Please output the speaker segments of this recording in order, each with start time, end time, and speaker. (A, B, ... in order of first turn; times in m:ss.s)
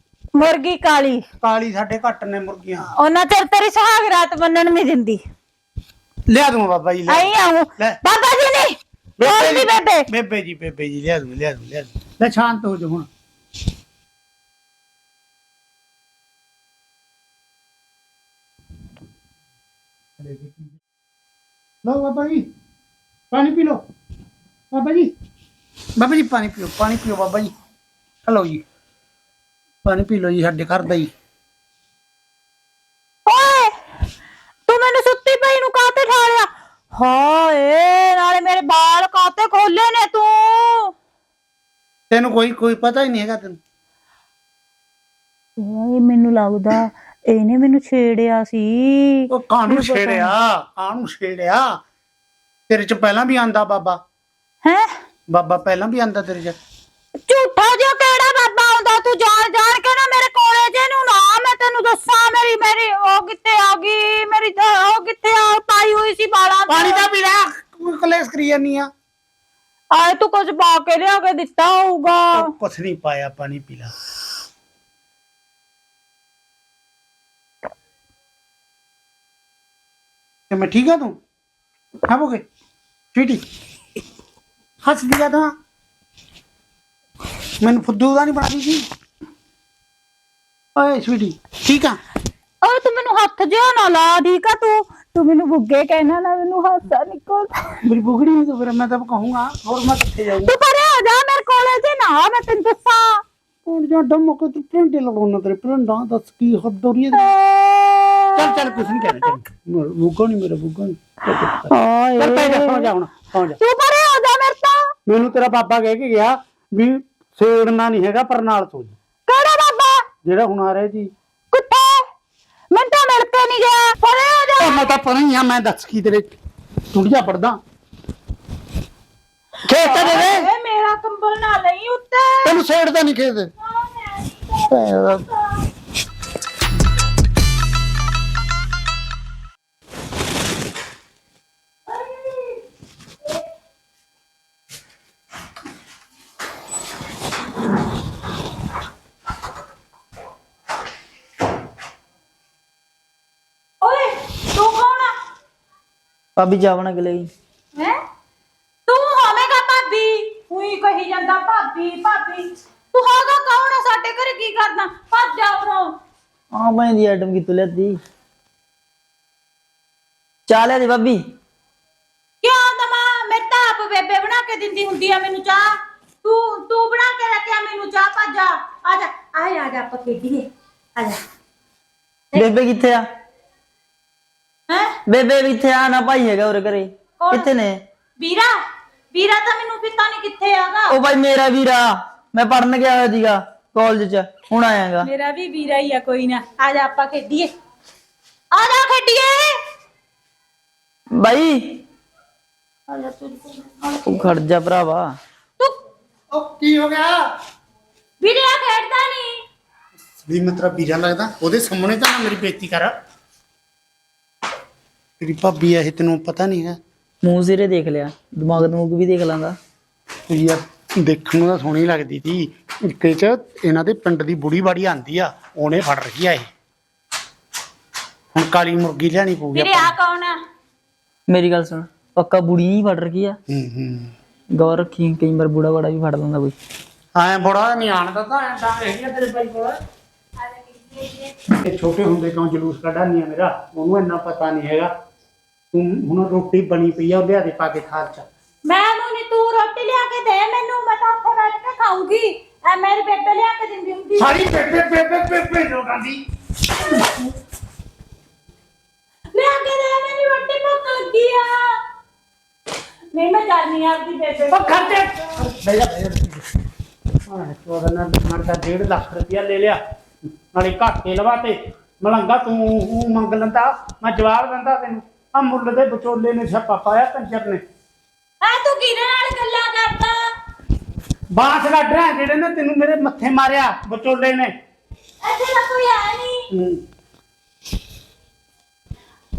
0:00.3-0:01.2 A
0:01.4-0:02.9 B
0:03.0-0:05.2 A
0:06.3-0:08.0 B
0:07.1-0:10.0 A
0:09.2-0:13.1 B
0:20.2-0:20.8 B
0:21.8-0:22.4 B
0:23.3-0:23.8 B
0:24.7-0:25.1 B
0:26.0-0:27.5 B
0:28.3-0:28.6 B
0:29.8-0:31.1 B
0:33.2-0:33.7 A
0:34.7-0:40.9 A
0:42.1-0:43.6 B
0:45.6-0:50.3 A
0:49.3-0:51.6 B
0:52.7-0:54.0 B
0:54.6-0:54.9 A
0:55.3-0:56.6 B
0:57.3-1:07.0 A
1:06.7-1:08.9 B
1:09.9-1:12.5 A
1:12.3-1:13.9 B
1:20.5-1:21.2 B
1:22.1-1:22.4 B
1:23.1-1:23.4 B
1:24.8-1:25.5 B
1:27.6-1:28.8 B
1:30.8-1:32.0 B
1:32.6-1:37.6 A
1:37.8-1:40.5 B
1:40.4-1:43.2 A
1:43.6-1:47.3 B
1:47.2-1:48.4 A
1:48.4-1:53.6 B
1:51.5-1:52.9 A
1:53.6-1:54.9 A
1:55.1-1:59.0 B
1:59.3-2:00.0 A
2:00.2-2:01.1 B
2:01.5-2:02.0 A
2:02.7-2:04.8 A
2:04.6-2:06.3 B
2:06.9-2:07.6 B
2:09.6-2:10.5 B
2:09.7-2:12.6 A
2:12.4-2:13.5 B
2:13.7-2:15.4 A
2:14.7-2:15.2 B
2:33.8-2:35.1 A
2:36.4-2:37.2 C
2:38.8-2:45.9 A
2:46.5-2:48.0 C
2:50.5-2:51.2 C
2:52.4-3:01.2 A
3:02.3-3:03.0 C
3:04.7-3:05.0 A
3:05.1-3:07.8 C
3:07.2-3:07.5 A
3:08.2-3:08.6 A
3:09.1-3:11.0 A
3:10.9-3:15.1 C
3:15.0-3:17.5 A
3:18.5-3:19.5 A
3:21.2-3:21.8 C
3:24.0-3:25.1 C
3:26.3-3:27.2 B
3:28.2-3:29.4 A
3:30.2-3:32.9 B
3:35.2-3:36.8 B
3:37.2-3:39.5 C
3:40.3-3:46.5 B
3:48.3-3:49.9 B
3:49.5-3:50.4 A
3:51.3-3:53.4 C
3:53.5-3:54.1 B
3:54.5-3:56.5 C
3:57.1-3:59.8 B
4:01.5-4:04.9 B
4:05.7-4:08.3 B
4:08.6-4:14.4 A
4:14.2-4:16.2 B
4:19.3-4:21.7 A
4:23.1-4:25.1 A
4:24.5-4:26.4 B
4:27.3-4:29.8 B
4:30.5-4:37.6 B
4:38.4-4:40.2 A
4:41.3-4:44.5 B
4:45.2-4:46.4 A
4:46.5-4:46.8 B